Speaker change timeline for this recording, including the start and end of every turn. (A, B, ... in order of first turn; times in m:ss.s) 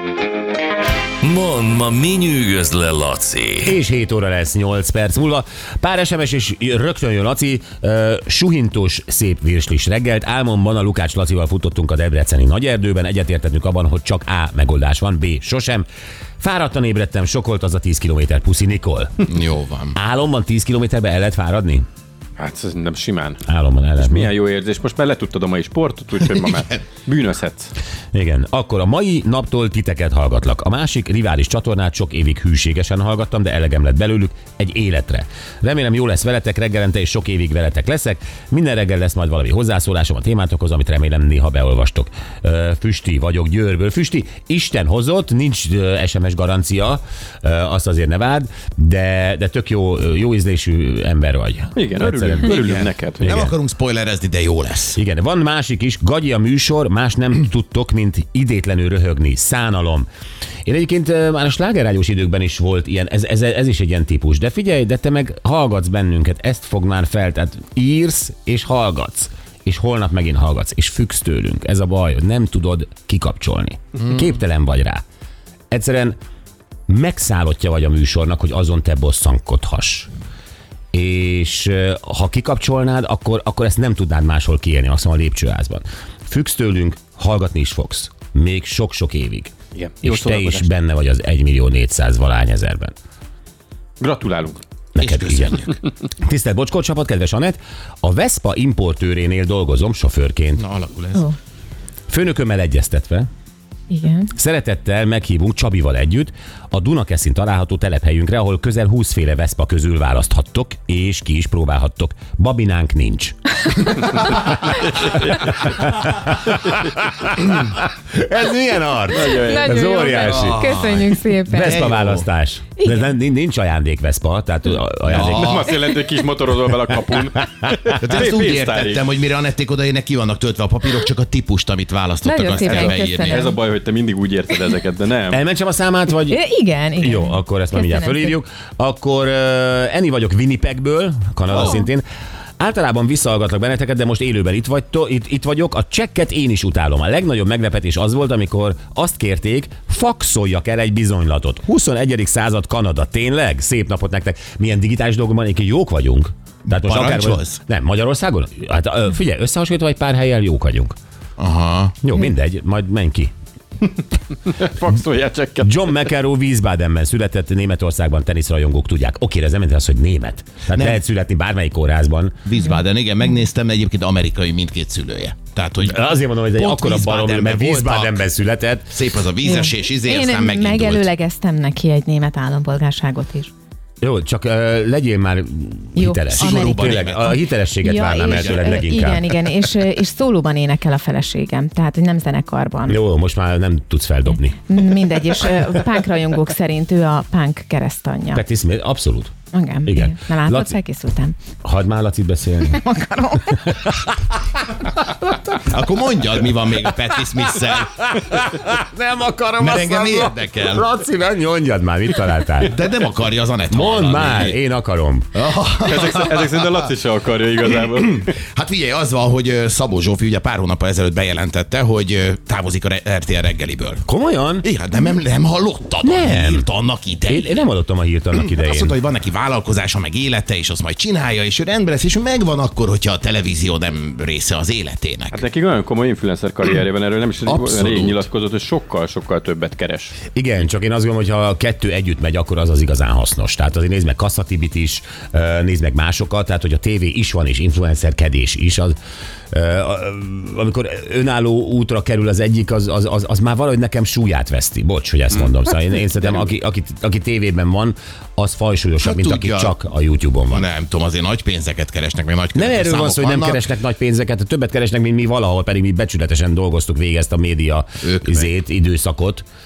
0:01.2-0:03.7 A
0:03.6-0:15.9 B
0:16.4-0:19.2 B
0:19.3-0:20.0 C
0:19.9-0:21.8 B
0:22.4-0:23.4 D
0:23.4-0:24.3 B
0:24.0-0:27.7 D
0:28.1-0:52.5 B
0:51.7-0:53.3 D
0:52.4-0:55.0 C
0:53.2-0:53.5 B
0:54.9-1:00.1 B
1:00.6-1:15.0 B
1:15.7-1:16.1 B
1:16.9-1:20.1 B
1:20.9-1:32.9 B
1:29.7-1:30.7 D
1:34.0-1:34.6 D
1:34.9-1:35.7 B
1:35.0-1:35.8 C
1:36.2-1:40.6 B
1:40.6-1:41.2 C
1:42.1-1:43.3 B
1:43.9-1:44.3 E
1:44.3-2:00.6 B
1:54.9-1:55.9 D
1:59.1-2:00.4 D
1:59.3-2:01.8 E
2:00.2-2:02.2 C
2:01.5-2:05.7 B
2:02.8-2:03.1 E
2:05.1-2:05.7 C
2:05.1-2:09.0 D
2:08.0-2:13.4 C
2:12.2-2:13.6 E
2:12.6-2:15.4 D
2:15.3-2:16.4 B
2:16.2-2:18.4 E
2:16.9-2:22.0 B
2:21.5-2:21.8 E
2:22.6-2:41.0 B
2:36.7-2:37.6 C
2:41.4-2:42.0 C
2:42.0-2:43.3 B
2:44.4-2:46.0 D
2:45.6-2:52.5 B
2:50.7-2:51.0 C
2:52.4-2:56.0 C
2:55.8-2:58.9 B
2:56.6-2:58.2 C
2:58.9-3:01.1 C
2:59.4-3:03.5 E
3:04.0-3:09.3 B
3:06.0-3:13.0 E
3:06.3-3:07.4 C
3:08.2-3:08.8 C
3:12.8-3:14.6 B
3:14.6-3:18.4 E
3:18.3-3:19.3 B
3:19.5-3:21.4 E
3:19.8-3:20.7 B
3:21.6-3:22.8 B
3:22.9-3:23.5 E
3:23.5-3:25.5 B
3:25.6-3:28.0 C
3:27.4-3:32.8 B
3:29.6-3:30.9 C
3:32.6-3:34.5 C
3:33.7-3:35.3 B
3:35.3-3:36.8 C
3:35.8-3:38.3 D
3:37.7-3:44.0 C
3:44.0-3:44.7 B
3:44.6-3:47.6 C
3:46.0-3:46.7 B
3:47.3-3:49.0 B
3:48.3-3:55.4 C
3:55.3-4:00.1 D
3:57.5-3:58.1 B
4:00.3-4:09.0 B
4:09.5-4:20.7 B
4:19.0-4:19.7 C
4:20.5-4:23.7 C
4:22.5-4:29.4 B
4:28.0-4:28.5 C